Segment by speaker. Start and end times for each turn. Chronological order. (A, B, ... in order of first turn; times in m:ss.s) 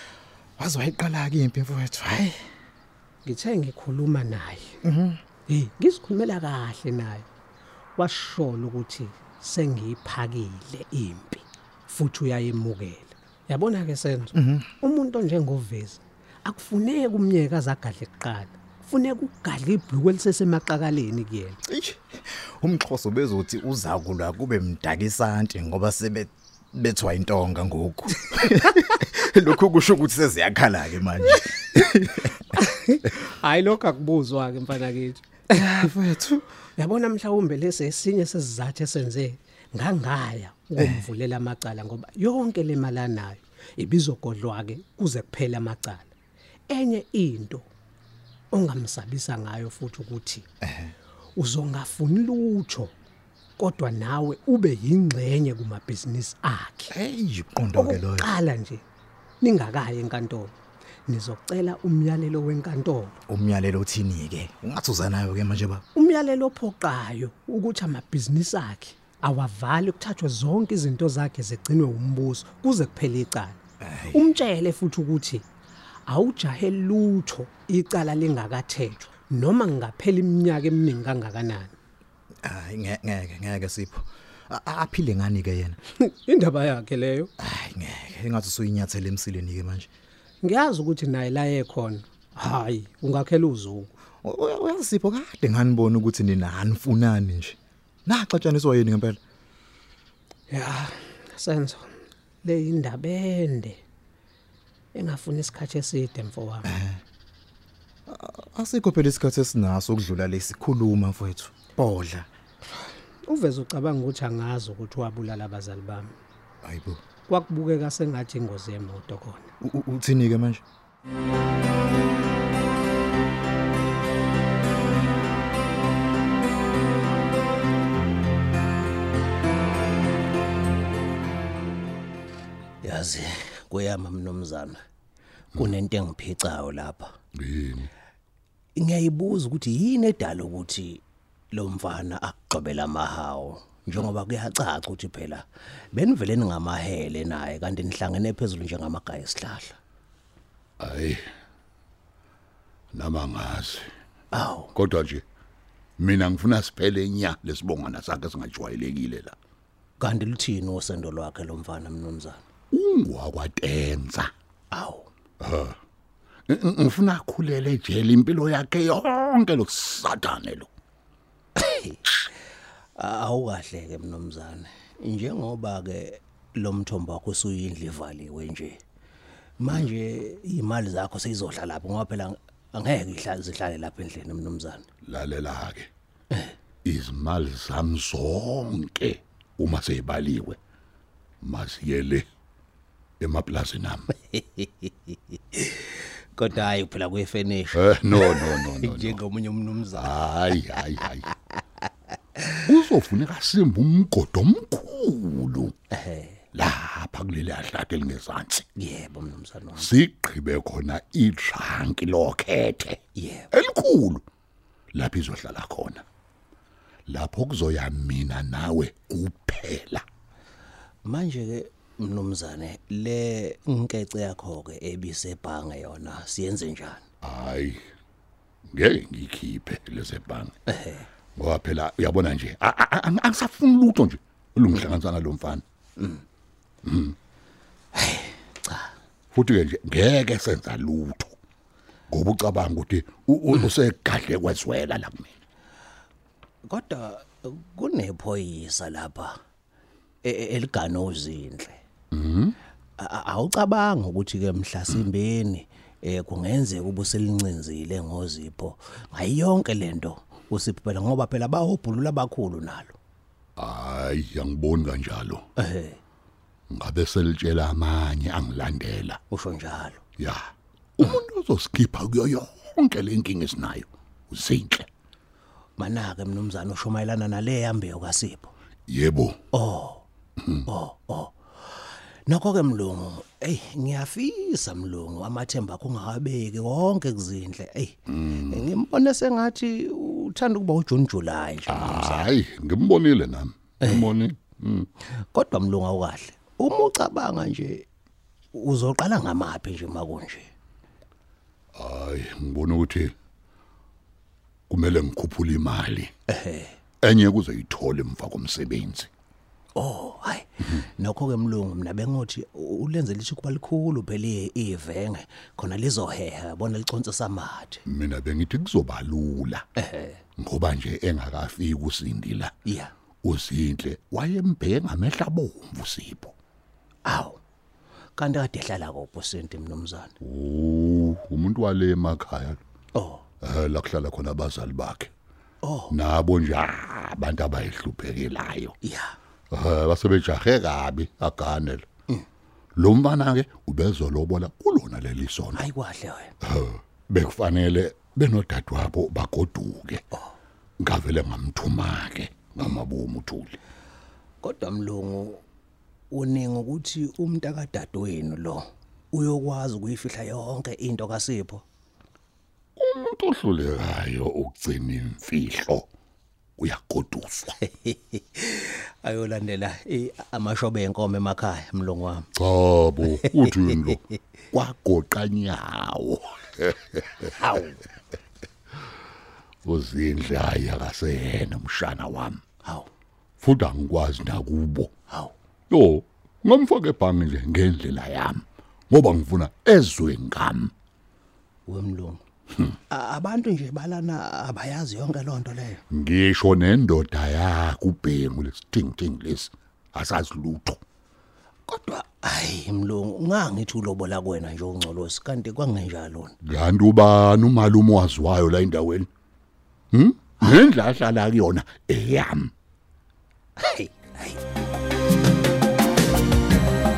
0:00.6-0:02.4 A
0:03.2-0:04.8 B
0:04.8-0:05.2 A
0:05.5-0:07.3 B
0:08.0-0:21.6 B
0:14.3-0:14.7 A
0:21.7-0:32.6 A
0:32.5-0:35.9 B
0:35.5-0:36.4 A
0:36.8-0:46.1 B
0:40.8-0:41.0 A
0:46.7-0:47.7 B
0:48.5-0:50.4 B
0:50.6-0:50.9 A
0:51.4-0:52.9 B
0:53.6-0:56.9 B
0:56.9-0:58.3 A
0:57.8-0:58.8 B
0:59.4-1:00.5 B
1:01.1-1:03.2 B
1:03.3-1:05.8 A
1:05.9-1:13.6 B
1:13.8-1:14.3 A
1:14.1-1:15.4 B
1:16.1-1:21.7 B
1:22.4-1:25.8 A
1:26.0-1:27.3 B
1:27.4-1:29.9 A
1:30.4-1:33.9 B
1:34.2-1:39.2 A
1:40.5-1:43.8 B
1:44.9-1:46.7 B
1:46.6-1:47.0 A
1:48.1-1:52.3 A
1:53.2-1:56.1 B
1:56.6-1:57.0 A
1:57.3-1:59.5 B
1:59.6-2:00.6 A
2:12.8-2:14.8 C
2:15.6-2:17.1 C
2:17.4-2:17.9 D
2:18.8-2:21.0 C
2:21.5-2:29.8 C
2:30.8-2:31.2 D
2:32.9-2:33.8 D
2:34.3-2:34.7 C
2:34.7-2:35.2 D
2:36.0-2:39.4 D
2:40.0-2:42.4 C
2:42.7-2:44.3 D
2:44.7-2:45.1 C
2:45.4-2:45.8 D
2:46.5-2:50.7 D
2:51.6-2:52.3 C
2:53.0-2:58.8 C
2:59.6-3:04.8 C
3:05.0-3:05.9 D
3:06.8-3:10.6 D
3:11.4-3:12.2 D
3:13.2-3:14.1 D
3:14.3-3:20.6 C
3:17.7-3:19.2 D
3:19.9-3:21.3 D
3:22.5-3:25.7 D
3:25.9-3:26.4 C
3:26.5-3:28.6 D
3:28.8-3:29.9 C
3:29.8-3:33.0 D
3:33.2-3:33.5 C
3:33.5-3:34.2 D
3:34.9-3:36.0 D
3:37.1-3:40.0 D
3:41.0-3:47.0 C
3:47.2-3:47.8 D
3:48.7-3:50.5 D
3:50.7-3:51.0 C
3:51.4-3:55.6 D
3:56.8-3:57.2 D
3:57.9-3:58.9 C
3:59.3-4:01.3 D
4:02.1-4:05.3 D
4:06.7-4:09.4 C
4:10.2-4:11.8 C
4:12.1-4:12.6 D
4:13.0-4:23.0 C
4:23.6-4:25.4 D
4:25.6-4:26.0 C
4:26.7-4:29.2 D
4:29.3-4:30.0 C
4:31.0-4:34.9 D
4:35.8-4:38.5 C
4:38.9-4:39.4 D
4:39.5-4:40.0 C
4:40.7-4:41.3 C
4:42.3-4:52.3 C
4:48.1-4:48.6 D
4:51.7-4:54.9 D
4:53.8-4:54.1 C
4:55.3-4:57.8 C
4:58.5-5:00.5 C
5:01.7-5:03.1 D
5:04.7-5:06.1 D
5:06.3-5:06.8 C
5:07.0-5:09.1 D
5:09.8-5:17.8 C
5:17.8-5:19.6 D
5:19.8-5:20.2 C
5:20.4-5:22.5 D
5:22.6-5:22.9 C
5:23.2-5:26.3 D
5:27.0-5:27.4 C
5:28.2-5:30.1 C
5:30.2-5:32.6 D
5:32.9-5:33.2 C
5:33.4-5:35.1 D
5:35.6-5:35.9 C
5:35.9-5:38.7 D
5:38.8-5:39.1 C
5:39.5-5:41.8 D
5:42.8-5:45.7 D
5:45.5-5:46.3 C
5:46.4-5:50.0 D
5:50.8-5:53.6 D
5:54.4-5:55.4 C
5:56.1-6:01.6 C
6:02.8-6:05.9 D
6:06.6-6:07.6 D
6:07.7-6:12.3 C
6:12.4-6:17.3 D
6:13.0-6:14.0 C
6:17.4-6:17.8 C
6:19.6-6:22.4 D
6:23.4-6:24.9 D
6:25.7-6:30.7 D
6:31.7-6:32.2 C
6:32.9-6:35.8 C
6:35.9-6:40.8 D
6:41.7-6:46.3 C
6:46.4-6:49.1 D
6:49.9-6:52.5 D
6:53.6-6:54.4 C